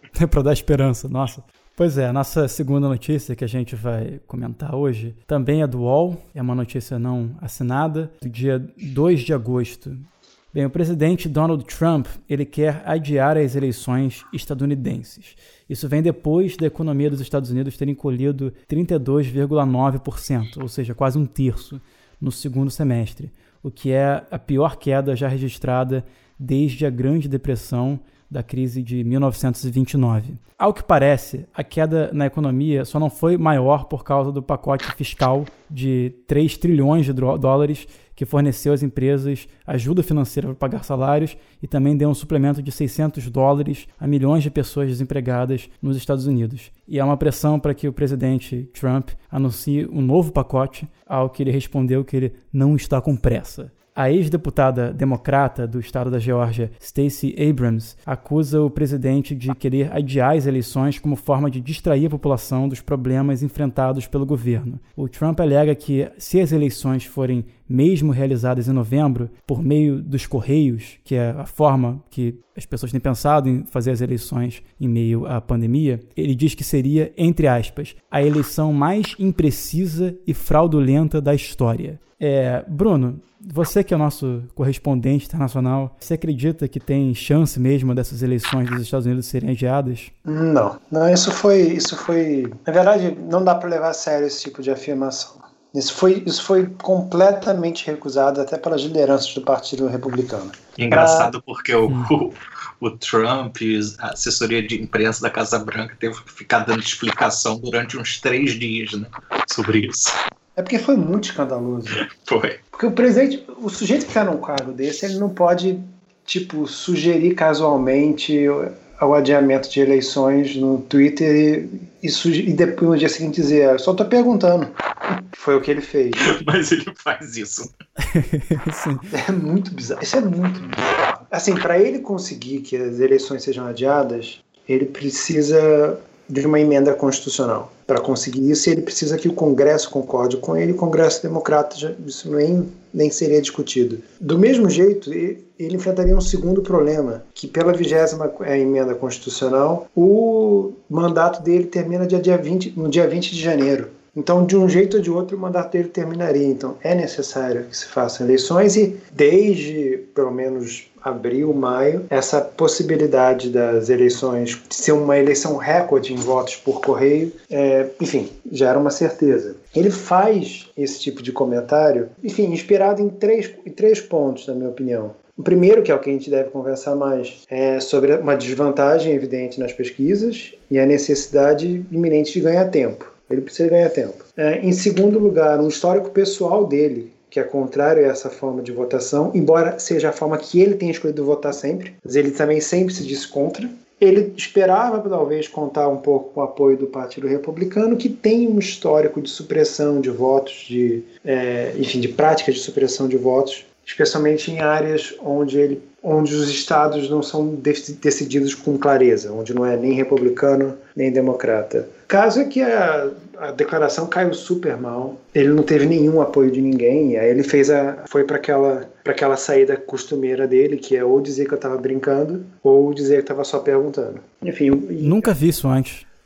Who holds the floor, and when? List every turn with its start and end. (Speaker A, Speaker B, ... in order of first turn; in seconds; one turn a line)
Speaker A: 0.1-90.1
Speaker B: 90.2-101.3
Speaker C: 100.8-110.2
Speaker B: 110.6-112.0
Speaker C: 112.0-112.6
Speaker B: 112.7-124.8
Speaker B: 125.3-126.4
Speaker C: 126.2-127.7
Speaker A: 128.1-129.1
Speaker B: 129.1-225.3
Speaker A: 225.0-226.1